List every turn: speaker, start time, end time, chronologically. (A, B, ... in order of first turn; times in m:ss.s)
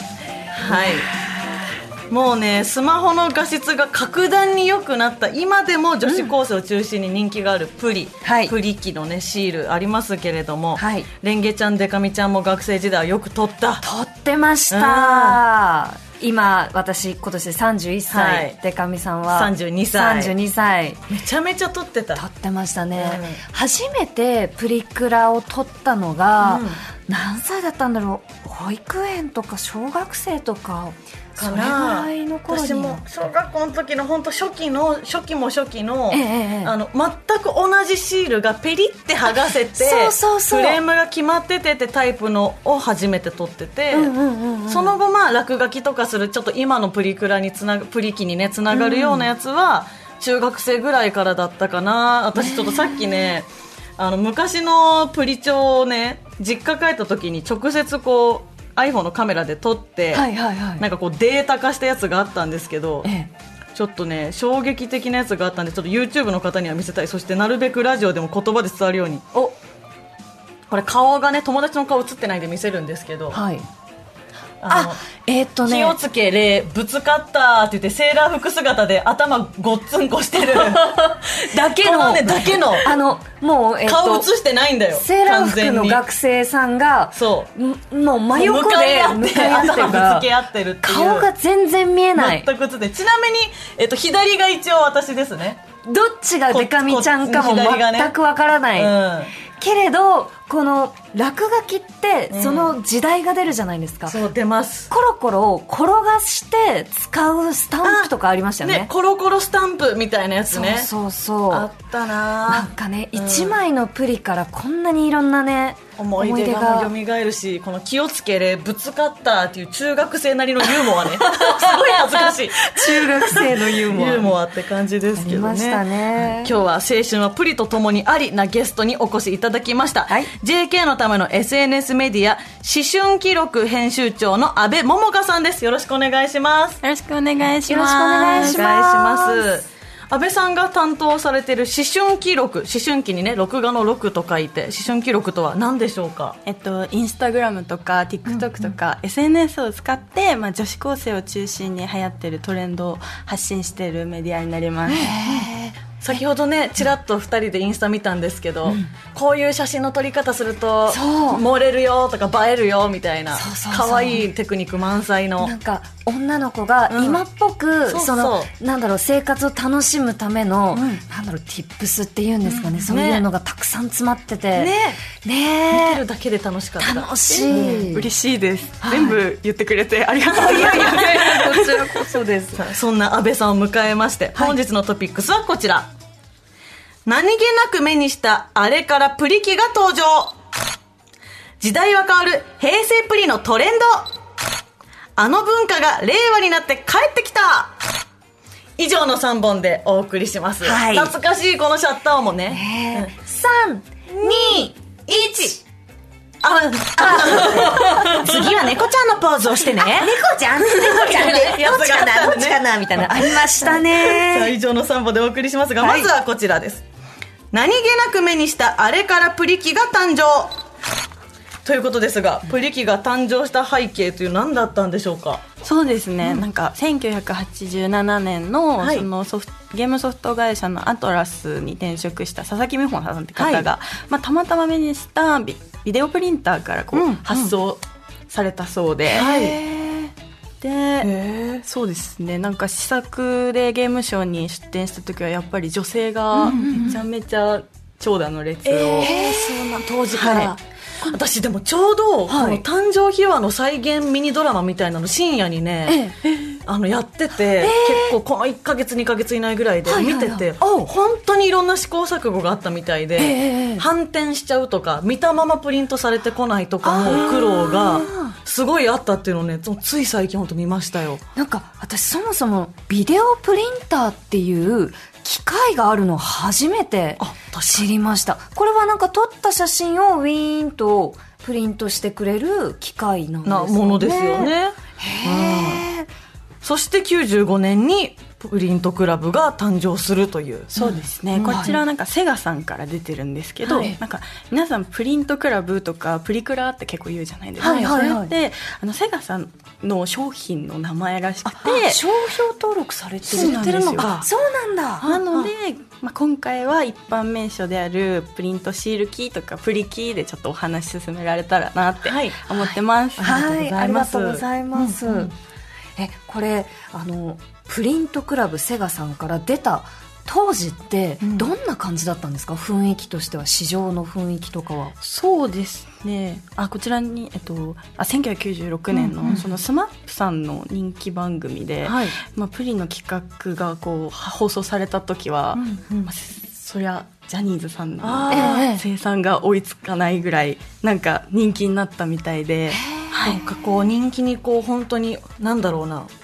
0:00.5-0:01.1 A
0:00.6-0:01.6 B
0:02.1-0:13.9 A
0:06.1-0:06.3 B
0:08.2-0:08.6 B
0:10.8-0:11.1 B
0:13.8-0:21.0 B
0:14.7-0:15.4 A
0:18.1-0:18.6 A
0:19.3-0:20.4 A
0:21.1-0:22.2 A
0:22.2-0:33.0 B
0:23.0-0:23.4 A
0:26.4-0:26.8 A
0:31.4-0:44.1 A
0:36.1-0:36.8 B
0:39.3-0:40.8 B
0:43.9-0:45.0 B
0:44.7-1:03.1 A
0:48.7-0:49.3 B
0:52.4-0:53.4 B
1:00.1-1:00.8 B
1:03.0-1:03.3 B
1:03.8-1:09.3 A
1:10.7-1:13.4 A
1:13.3-1:13.7 B
1:14.6-1:15.0 A
1:14.7-1:16.0 B
1:15.6-1:23.0 A
1:20.4-1:24.3 B
1:23.8-1:26.0 A
1:24.9-1:30.3 B
1:27.2-1:27.5 A
1:28.4-1:31.3 A
1:30.8-1:32.5 B
1:32.2-1:35.6 A
1:35.8-1:44.2 B
1:36.5-1:38.2 A
1:38.8-1:39.3 A
1:42.3-1:42.8 A
1:44.1-1:44.9 A
1:44.9-1:48.9 B
1:47.8-1:48.1 A
1:48.6-1:50.9 A
1:50.5-1:51.7 B
1:51.5-1:53.6 A
1:52.5-1:56.9 B
1:56.0-2:16.8 A
2:00.6-2:04.4 B
2:05.2-2:06.6 B
2:16.8-2:18.6 C
2:17.7-2:19.6 B
2:18.3-2:26.4 A
2:26.4-2:35.2 C
2:34.9-2:35.8 B
2:36.0-2:45.5 A
2:38.6-2:38.9 B
2:40.9-2:41.4 B
2:43.3-2:44.3 B
2:45.4-2:56.0 B
2:46.9-2:47.2 A
2:47.9-2:48.5 A
2:50.7-2:51.0 A
2:52.5-2:53.3 A
2:54.5-2:55.0 A
2:55.7-2:57.9 A
2:56.8-2:58.1 B
2:57.3-3:02.0 C
2:58.8-2:59.2 B
3:00.3-3:02.7 B
3:02.6-3:05.9 A
3:07.1-3:10.4 A
3:11.6-3:14.1 A
3:15.2-3:17.8 A
3:18.8-3:23.1 A
3:20.6-3:21.2 B
3:22.5-3:24.7 B
3:24.1-3:25.6 A
3:26.4-3:36.8 A
3:27.0-3:28.7 B
3:29.6-3:34.6 B
3:35.8-3:36.1 B
3:37.5-3:40.6 A
3:41.6-3:45.4 A
3:45.6-3:59.3 C
3:48.8-3:49.0 A
3:53.4-3:53.7 A
3:56.9-3:57.5 A
3:59.1-3:59.6 A
3:59.1-4:00.1 B
4:00.6-4:01.1 C
4:01.0-4:01.6 A
4:01.6-4:09.2 C
4:06.4-4:07.0 B
4:06.4-4:06.9 A
4:08.7-4:16.1 A
4:09.0-4:10.5 B
4:10.2-4:10.5 C
4:12.3-4:12.6 B
4:15.9-4:16.2 B
4:16.3-4:16.6 C
4:16.7-4:31.2 A
4:17.6-4:18.2 B
4:19.8-4:20.9 B
4:23.2-4:23.9 B
4:26.8-4:28.4 B
4:31.4-4:46.1 B
4:37.2-4:37.9 A
4:43.4-4:45.8 A
4:46.6-4:50.8 A
4:50.8-5:02.1 C
4:50.8-4:51.8 B
4:51.4-4:51.7 A
4:53.7-4:54.0 B
4:57.6-4:58.3 B
5:01.6-5:05.1 B
5:03.2-5:04.2 C
5:03.3-5:04.3 A
5:05.0-5:05.5 A
5:05.0-5:13.6 C
5:12.0-5:12.4 A
5:13.2-5:15.3 B
5:13.2-5:15.0 A
5:16.0-5:24.9 B
5:21.2-5:21.5 A
5:25.0-5:43.4 C
5:31.8-5:32.2 A
5:35.6-5:36.1 A
5:38.0-5:38.7 A
5:38.3-5:38.8 B
5:42.7-5:43.3 B
5:43.2-5:46.1 A